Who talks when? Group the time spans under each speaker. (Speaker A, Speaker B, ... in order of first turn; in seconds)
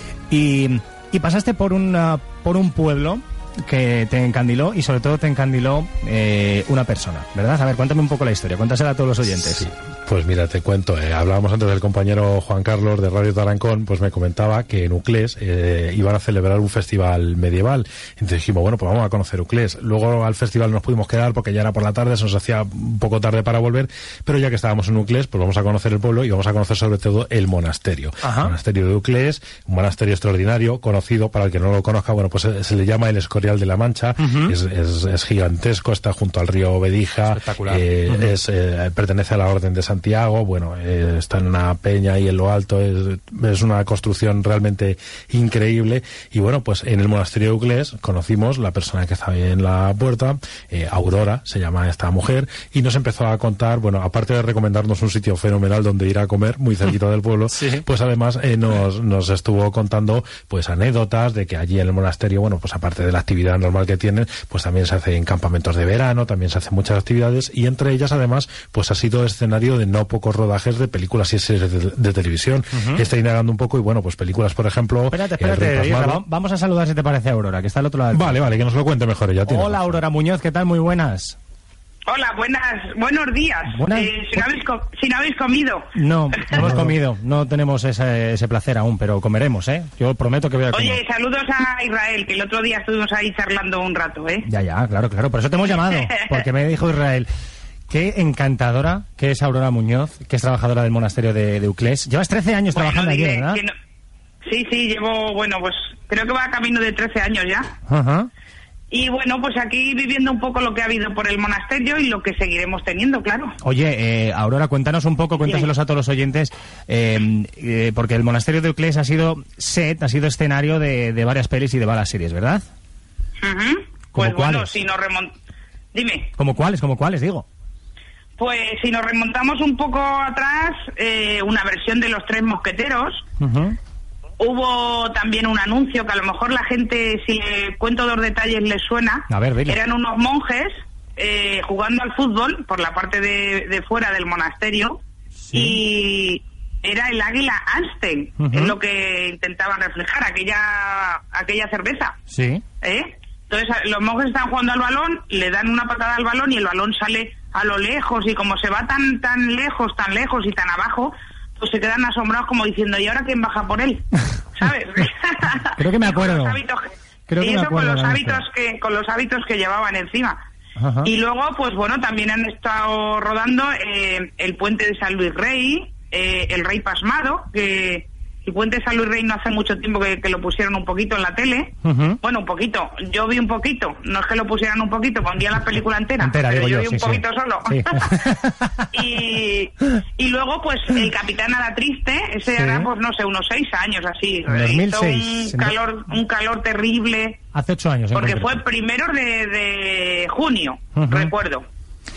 Speaker A: 0.3-9.7, 28.2-28.5, 34.2-34.5, 37.3-38.3, 57.5-57.9, 72.7-73.0, 75.1-78.4, 79.5-81.4, 83.7-84.4, 86.0-91.0, 94.4-97.3, 97.9-103.6, 107.9-108.3, 113.6-122.7, 124.2-124.8, 126.4-127.5, 133.4-133.8, 139.3-139.8, 145.5-145.8, 148.4-148.8, 152.3-152.6, 165.8-166.6, 167.3-168.4, 170.8-171.1, 181.8-182.2, 186.2-188.8, 192.5-192.9, 194.5-195.7, 197.5-198.6, 200.9-201.3
Speaker B: 9.3-76.2, 78.1-80.0, 86.6-86.9
Speaker C: 82.1-85.9, 90.7-94.4, 95.9-96.4, 102.7-103.7, 104.4-107.7, 108.9-113.5, 115.4-115.7, 123.4-125.3, 125.9-126.3, 128.4-133.2, 134.4-145.0, 145.5-152.2, 152.8-170.4, 171.0-188.2, 188.9-197.4, 198.1-201.7